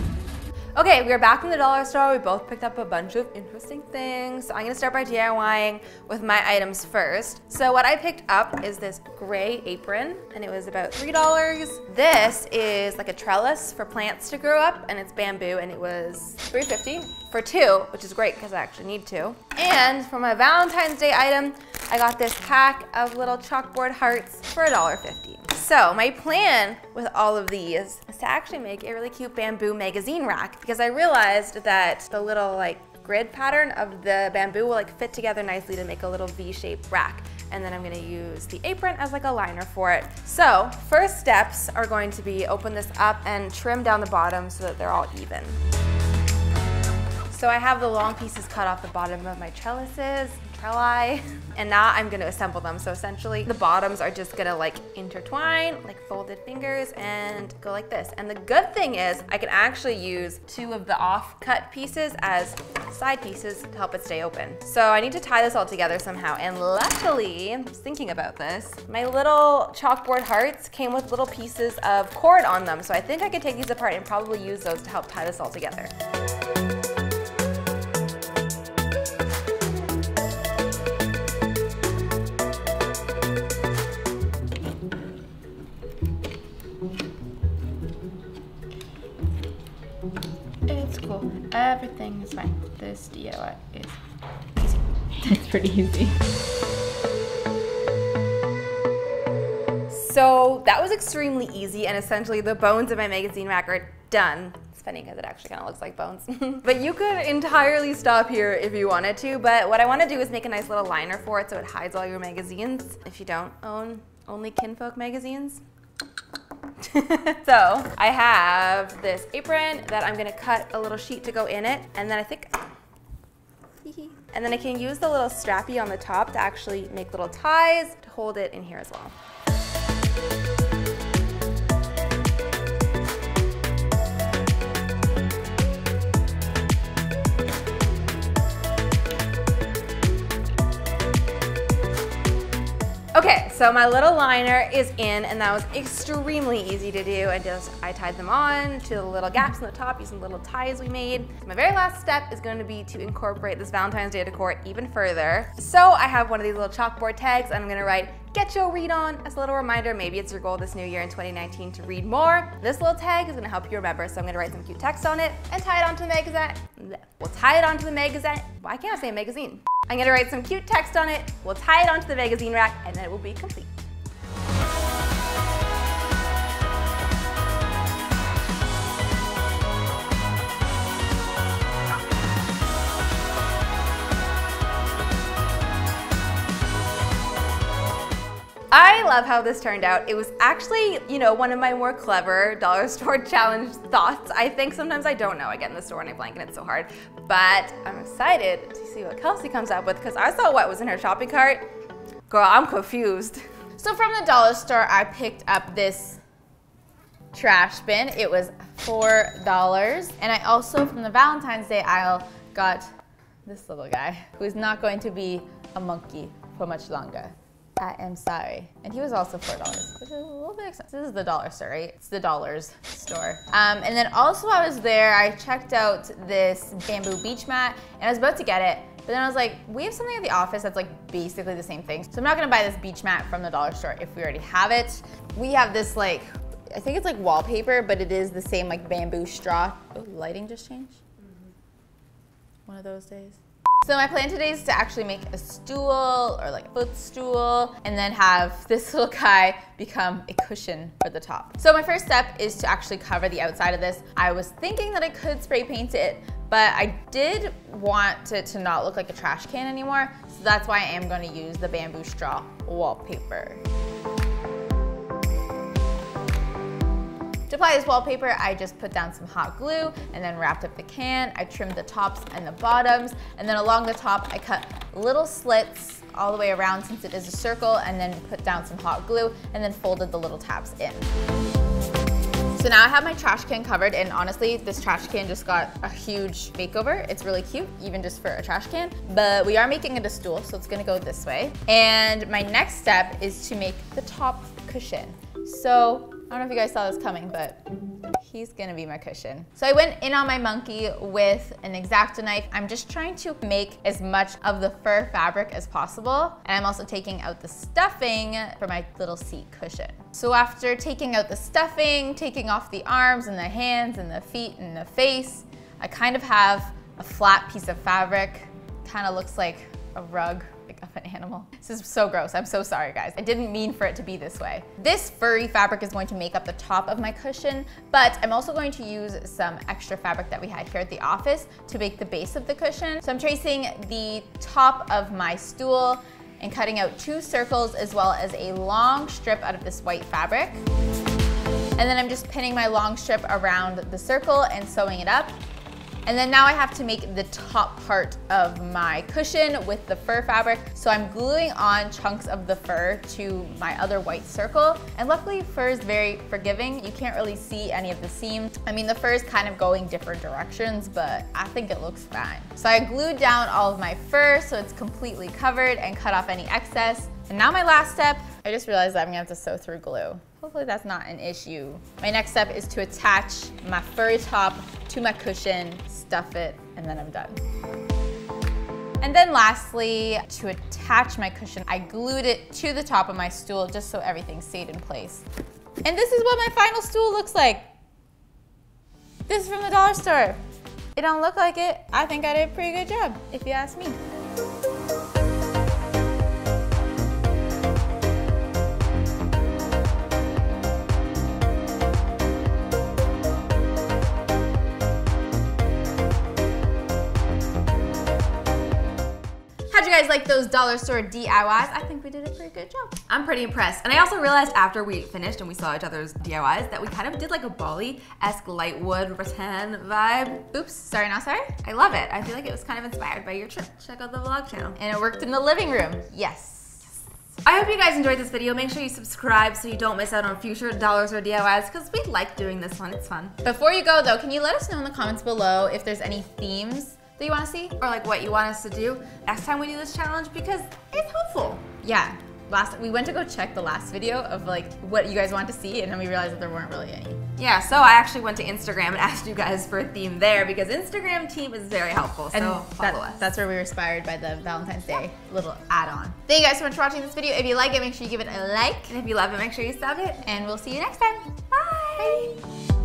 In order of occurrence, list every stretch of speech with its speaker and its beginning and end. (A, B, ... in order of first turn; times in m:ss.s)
0:00.8-0:45.6 A
0:47.3-1:15.9 A
1:30.7-1:34.0 A
1:35.2-1:36.2 B
1:39.9-1:55.6 A
1:56.8-2:02.7 A
2:03.8-2:09.1 A
2:23.2-2:53.8 A
3:08.7-3:21.7 A
3:22.3-3:23.4 A
3:23.8-3:26.2 B
3:27.3-3:32.9 B
3:33.5-4:01.0 B
4:02.7-4:23.6 B
4:27.5-4:41.1 B
4:42.5-5:40.6 B
5:41.8-5:45.4 B
5:46.0-6:17.4 B
6:19.0-6:25.2 B
6:25.8-6:27.7 B
6:29.3-6:30.4 B
6:31.0-6:34.0 B
6:49.7-6:53.1 B
6:53.1-7:00.5 A
7:00.5-7:01.6 B
7:01.6-7:04.8 A
7:04.8-7:06.9 B
7:07.4-7:13.4 A
7:13.4-7:17.8 B
7:17.8-7:21.7 A
7:21.8-7:27.2 B
7:27.4-7:33.3 A
7:32.3-7:39.0 B
7:38.9-7:40.2 A
7:40.2-7:41.5 B
7:41.5-7:42.4 A